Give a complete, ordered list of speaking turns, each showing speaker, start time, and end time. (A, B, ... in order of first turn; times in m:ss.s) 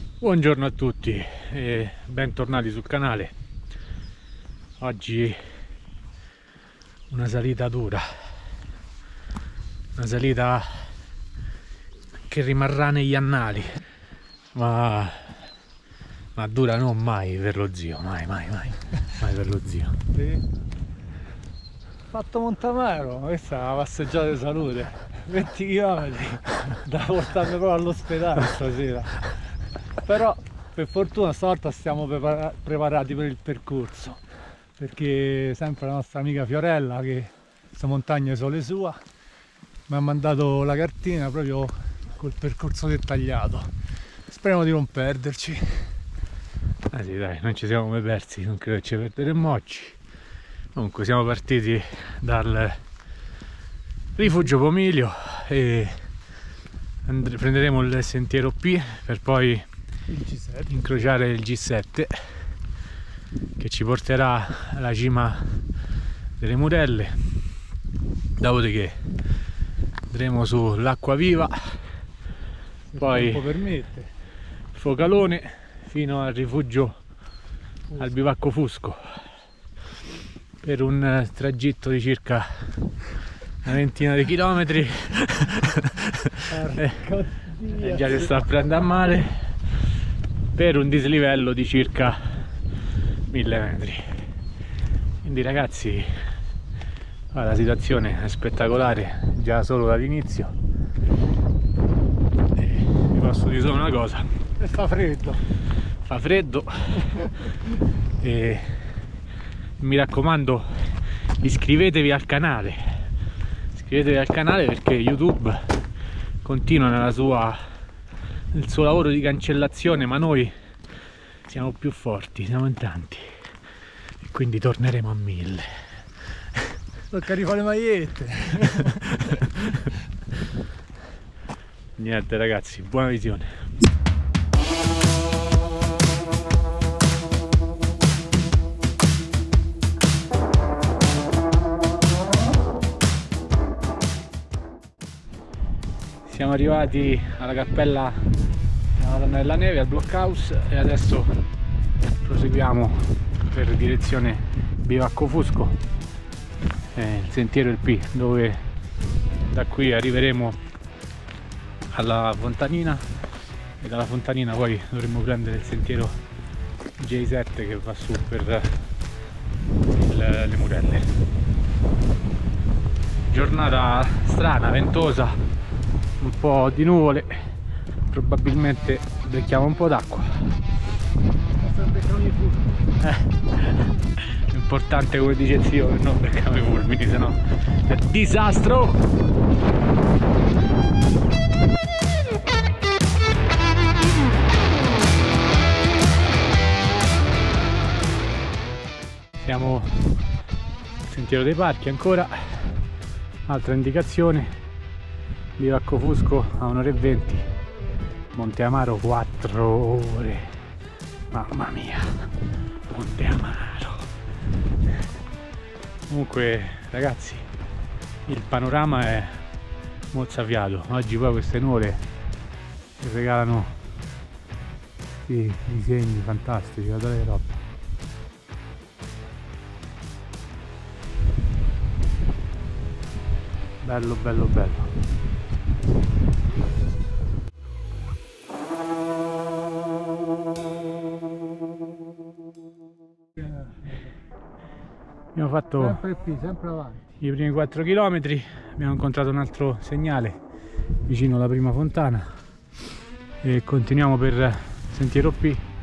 0:00.2-0:03.3 A
0:04.8-0:05.4 A
0:07.1-0:08.1 A
0:10.0-0:10.9 A
0:12.3-0:13.8 A
0:14.5-0:15.5 A
0:16.3-0:20.0 A
0:20.1-0:20.4 B
0:22.1-0:29.4 B
0:30.0-0:34.2 B
0:34.8-0:39.0 B
0:39.9-0:43.7 B
0:44.3-0:45.9 B
0:46.9-0:50.0 A
0:50.7-0:52.8 A
0:54.2-0:56.0 A
0:57.0-0:59.6 A
1:00.1-1:00.8 B
1:00.7-1:02.1 A
1:03.6-1:05.6 A
1:06.4-1:07.2 A
1:08.4-1:09.0 A
1:10.1-1:11.8 A
1:12.9-1:14.1 B
1:13.0-1:13.5 A
1:14.7-1:17.0 A
1:18.0-1:19.0 A
1:20.6-1:22.8 A
1:23.6-1:27.0 A
1:26.4-1:28.3 B
1:27.6-1:29.4 A
1:30.5-1:32.2 A
1:33.3-1:34.2 A
1:35.2-1:36.1 A
1:37.3-1:40.5 A
1:42.5-1:44.3 A
1:44.6-1:45.4 B
1:46.0-1:47.5 A
1:48.2-1:48.9 A
1:49.8-1:53.0 A
1:53.7-1:55.8 A
1:56.4-1:57.6 A
1:58.5-2:00.5 A
2:01.4-2:03.3 A
2:04.2-2:05.7 A
2:07.1-2:09.8 B
2:08.8-2:09.8 A
2:12.0-2:13.5 A
2:26.2-2:28.3 A
2:28.9-2:31.3 A
2:32.2-2:35.8 A
2:36.9-2:38.6 A
2:39.4-2:40.6 A
2:41.9-2:43.0 A
2:43.8-2:46.2 A
2:47.0-2:48.8 A
2:50.0-2:51.1 A
2:53.3-2:55.4 A
2:56.2-2:57.4 A
2:58.1-3:00.5 A
3:01.6-3:02.7 B
3:03.0-3:09.0 A
3:19.4-3:20.0 A
3:21.0-3:22.8 A
3:23.4-3:24.5 A
3:25.6-3:27.5 A
3:28.3-3:30.6 A
3:31.3-3:32.3 A
3:32.9-3:34.1 A
3:36.1-3:37.5 A
3:38.2-3:39.4 A
3:40.1-3:42.0 A
3:43.0-3:43.8 A
3:45.2-3:47.5 A
3:53.8-3:55.0 A
4:05.3-4:06.0 A
4:05.8-4:07.0 B
4:07.2-4:10.4 A
4:11.0-4:12.3 A
4:13.4-4:15.6 A